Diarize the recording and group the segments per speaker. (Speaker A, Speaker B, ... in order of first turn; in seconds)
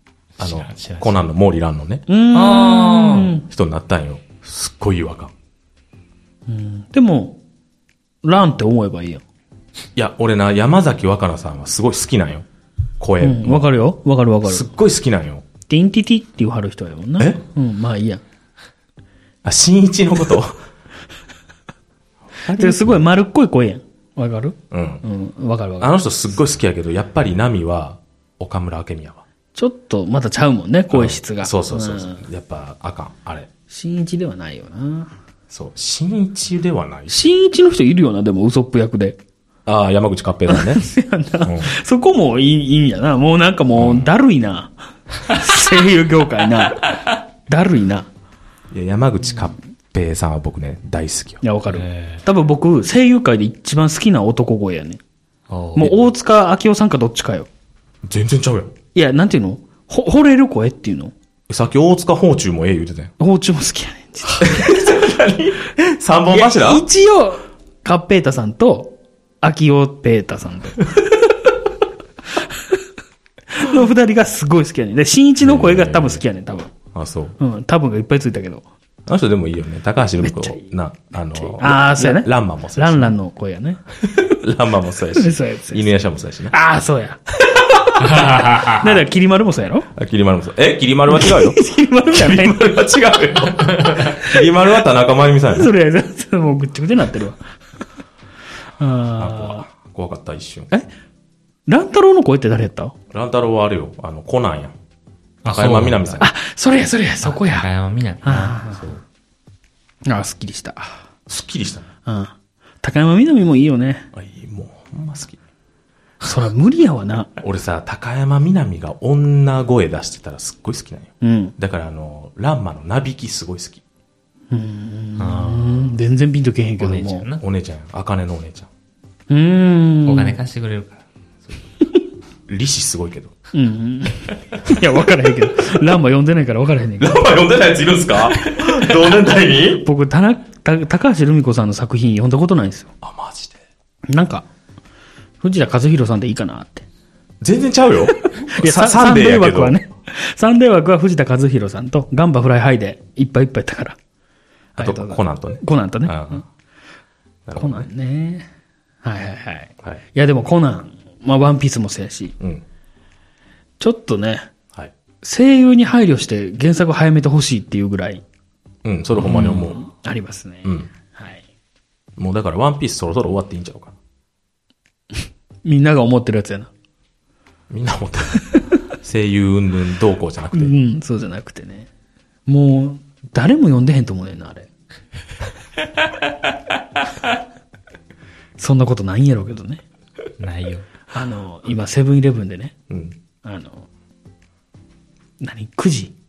Speaker A: 0.4-1.2, 2.3-3.4, 51.7-52.2, 55.5-56.0, 88.0-89.0, 105.4-106.2, 107.2-108.7, 125.2-126.0, 126.8-127.4, 130.1-131.0, 190.4-190.9
Speaker B: 0.4-2.0, 3.5-5.3, 10.0-12.5, 13.0-13.8, 14.4-15.4, 19.4-20.6, 22.4-23.0, 24.7-25.0, 25.8-29.2, 30.9-33.5, 35.5-37.2, 39.7-40.9, 41.4-41.7, 43.8-44.1, 48.7-51.4, 58.0-58.7, 61.5-63.1, 64.3-66.9, 75.4-76.2, 76.9-77.4, 79.1-83.2, 84.0-86.5, 90.0-95.7, 99.2-100.7, 103.1-104.8, 105.5-106.3, 108.8-109.0, 111.3-111.9, 114.1-115.4, 117.4-123.8, 127.4-128.7, 132.5-133.3, 137.0-139.8, 143.0-143.6, 147.4-149.8, 154.8-156.4, 157.5-157.9, 168.8-169.8, 172.2-174.0, 177.7-180.8, 192.9-193.2
Speaker C: 2.1-3.4, 6.5-7.4, 8.2-9.2, 13.2-14.7, 15.7-18.2, 22.5-26.0, 29.6-32.2, 33.7-35.1, 37.1-39.2, 40.5-48.1, 51.4-55.0, 55.8-57.5, 59.0-61.1, 63.2-64.8, 66.3-71.3, 72.4-72.7, 73.5-76.7, 77.4-78.7, 80.2-80.6, 81.3-83.8, 85.1-85.9, 86.5-89.9, 91.1-92.7, 95.5-97.4, 98.8-99.7, 101.7-103.0, 106.2-107.7, 108.2-108.8, 110.1-111.0, 112.1-114.1, 116.2-117.3, 121.2-121.6, 124.5-127.3, 129.3-130.4, 133.5-137.2, 139.8-142.9, 144.1-144.5, 145.4-146.9, 148.1-154.0, 154.8-156.4, 157.6-158.5, 159.0-162.4, 163.8-164.5, 165.2-168.2, 169.2-171.4, 175.7-176.7, 180.5-181.9, 182.5-184.7, 188.6-189.8, 191.1-192.7, 193.4-193.9, 195.4-196.1